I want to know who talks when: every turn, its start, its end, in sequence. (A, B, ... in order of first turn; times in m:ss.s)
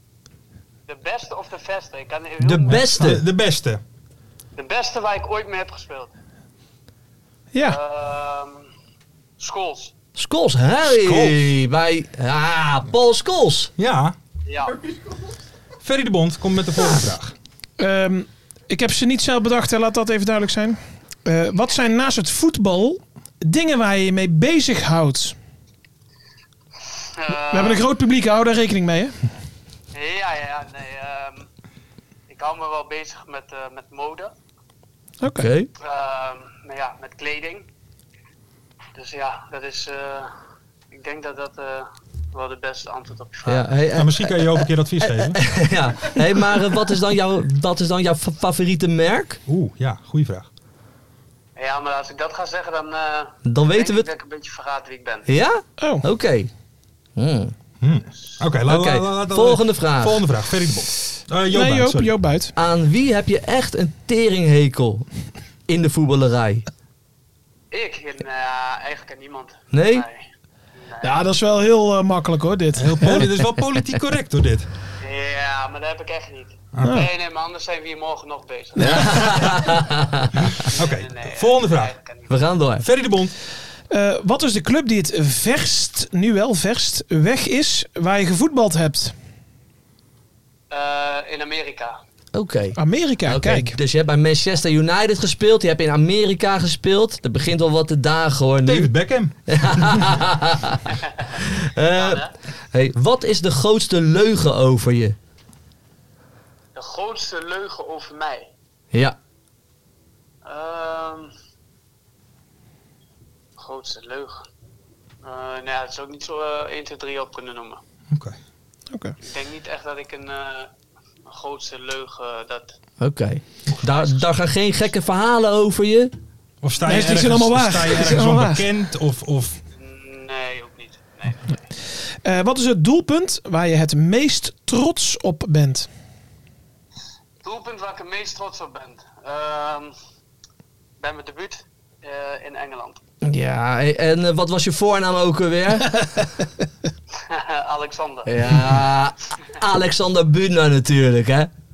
0:00.9-0:02.9 A
0:02.4-0:03.2 B
0:02.7-0:03.8 C
0:04.6-0:06.1 A
0:07.5-0:07.8 D
0:07.6-0:08.6 A
0:09.4-0:09.9 A
0:10.2-0:13.7 B
0:10.8-0:11.5 C
0:13.8-0:14.2 C
0:14.5-0:14.8 A
0:15.8-0:17.4 C
0:17.8-0:25.4 D
0:27.2-0:27.8 A
0:27.5-0:29.2 D
0:29.9-0:31.5 A
0:32.3-0:34.3 A
0:35.2-0:35.5 D
0:35.3-0:35.7 B
0:35.8-0:37.7 A
0:39.0-0:40.3 A
0:40.9-0:43.7 A
0:43.5-0:49.4 B
0:44.0-0:45.6 C
0:49.5-0:50.5 C
0:51.6-0:55.3 A
0:53.4-0:54.1 B
0:55.3-0:56.5 B
0:55.8-0:56.1 D
0:57.2-0:57.5 B
0:57.8-1:02.2 C
0:58.7-1:00.3 B
1:01.5-1:02.5 D
1:02.6-1:05.1 B
1:05.7-1:06.7 B
1:07.7-1:10.2 A
1:09.7-1:10.0 B
1:10.8-1:11.2 A
1:11.0-1:13.3 D
1:12.7-1:14.7 C
1:15.0-1:19.9 A
1:16.7-1:17.0 C
1:16.8-1:17.1 D
1:18.8-1:19.3 D
1:18.8-1:20.4 B
1:20.6-1:21.9 C
1:20.7-1:22.5 A
1:22.3-1:22.8 B
1:22.8-1:23.4 C
1:23.9-1:29.1 D
1:30.7-1:32.0 A
1:32.3-1:38.9 B
1:32.8-1:33.8 D
1:38.6-1:40.2 C
1:39.5-1:45.2 B
1:41.9-1:42.4 A
1:46.8-1:48.5 A
1:50.4-1:51.3 A
1:53.6-1:54.4 A
1:55.2-1:57.8 A
1:58.1-1:58.4 C
1:59.2-2:00.7 A
2:01.3-2:02.8 A
2:03.0-2:06.1 B
2:03.8-2:04.2 A
2:06.6-2:09.6 C
2:06.8-2:08.7 D
2:09.8-2:11.5 A
2:12.2-2:15.9 D
2:17.4-2:19.9 A
2:21.0-2:23.0 A
2:23.2-2:26.3 B
2:27.3-2:28.3 A
2:28.3-2:31.5 B